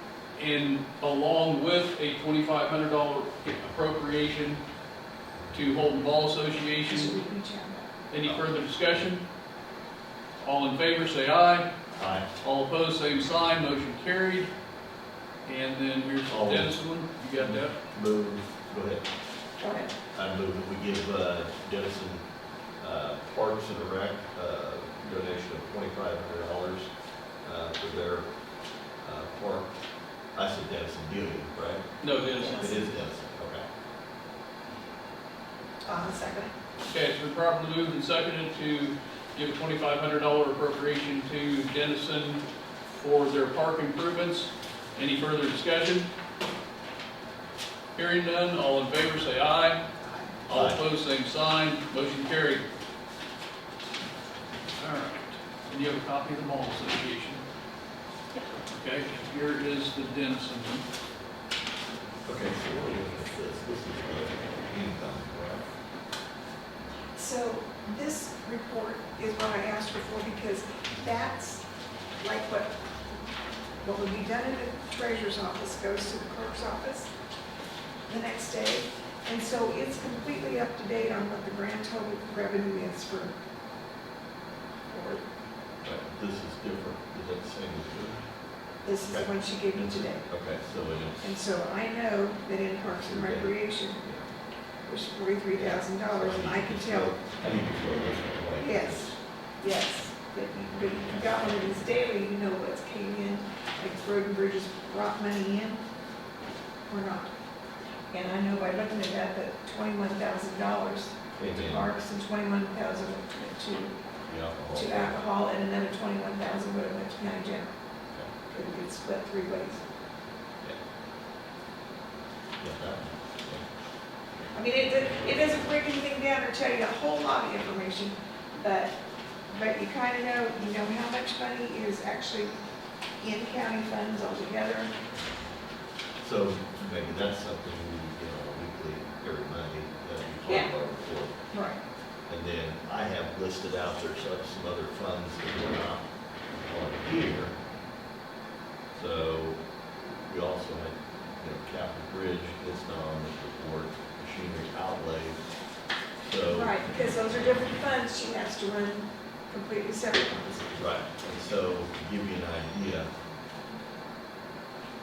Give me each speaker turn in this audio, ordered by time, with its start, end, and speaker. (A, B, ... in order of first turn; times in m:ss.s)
0:00.4-0:04.6 A
0:05.5-0:07.2 A
0:06.9-0:07.9 B
0:08.1-0:09.2 A
0:10.4-0:11.7 A
0:11.9-0:12.3 C
0:12.4-0:14.5 A
0:15.4-0:17.8 A
0:16.3-0:16.7 C
0:17.9-0:19.0 C
0:19.6-0:19.9 B
0:20.1-0:26.9 C
0:27.4-0:28.2 C
0:29.0-0:29.7 C
0:30.3-0:31.8 C
0:32.0-0:32.6 A
0:32.4-0:32.9 B
0:32.5-0:33.6 C
0:35.8-0:36.5 B
0:36.8-0:46.1 A
0:47.9-0:49.8 A
0:50.0-0:50.4 B
0:50.5-0:52.6 A
0:50.5-0:50.8 C
0:54.8-0:57.4 A
0:58.7-1:00.8 A
1:02.2-1:05.7 C
1:07.2-1:11.6 B
1:12.2-1:12.7 B
1:13.8-1:17.1 B
1:18.1-1:23.3 B
1:24.9-1:25.2 B
1:25.8-1:28.2 C
1:28.8-1:30.3 B
1:29.0-1:31.4 C
1:31.2-1:34.0 B
1:32.8-1:34.2 C
1:34.8-1:37.1 B
1:35.5-1:39.2 C
1:38.6-1:45.8 B
1:46.9-1:47.3 B
1:48.1-1:54.0 B
1:51.4-1:51.9 C
1:54.3-1:55.2 C
1:54.7-1:57.8 B
1:58.5-1:59.8 B
2:02.6-2:03.7 C
2:04.5-2:09.0 B
2:09.5-2:12.5 B
2:13.2-2:14.9 B
2:16.2-2:21.3 C
2:20.4-2:20.7 B
2:21.5-2:21.8 B
2:22.3-2:27.5 C
2:28.9-2:35.4 C
2:36.2-2:36.8 C
2:36.5-2:41.5 B
2:40.8-2:43.1 C